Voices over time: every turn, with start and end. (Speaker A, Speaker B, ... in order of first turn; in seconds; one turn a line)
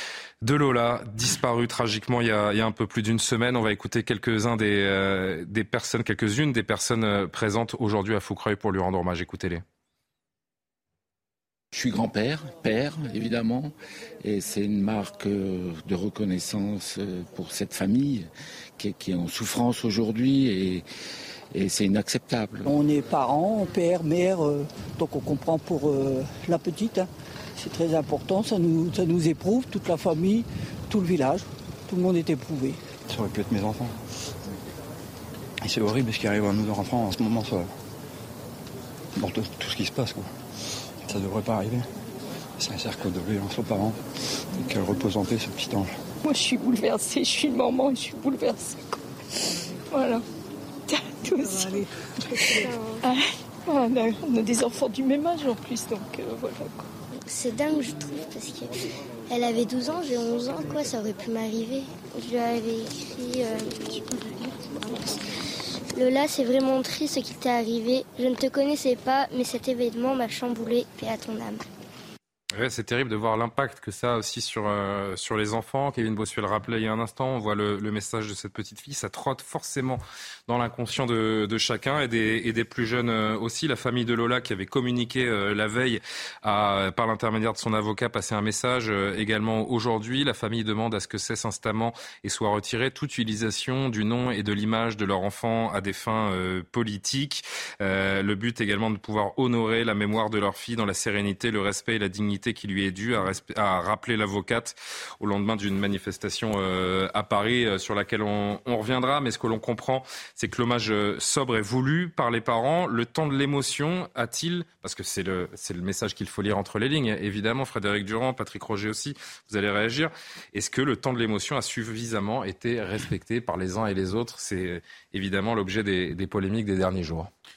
Speaker A: 0.4-9.6
Speaker B: 11.7-20.9
Speaker B: 21.5-22.7
Speaker C: 22.6-32.8
Speaker D: 33.1-34.0
Speaker D: 35.6-37.7
Speaker D: 39.1-40.3
Speaker D: 41.0-41.9
Speaker D: 42.6-44.0
Speaker D: 44.5-45.9
Speaker E: 46.2-49.0
Speaker E: 49.9-50.2
Speaker E: 50.9-51.8
Speaker E: 53.0-56.9
Speaker F: 57.2-64.5
Speaker F: 65.9-71.6
Speaker A: 72.5-127.3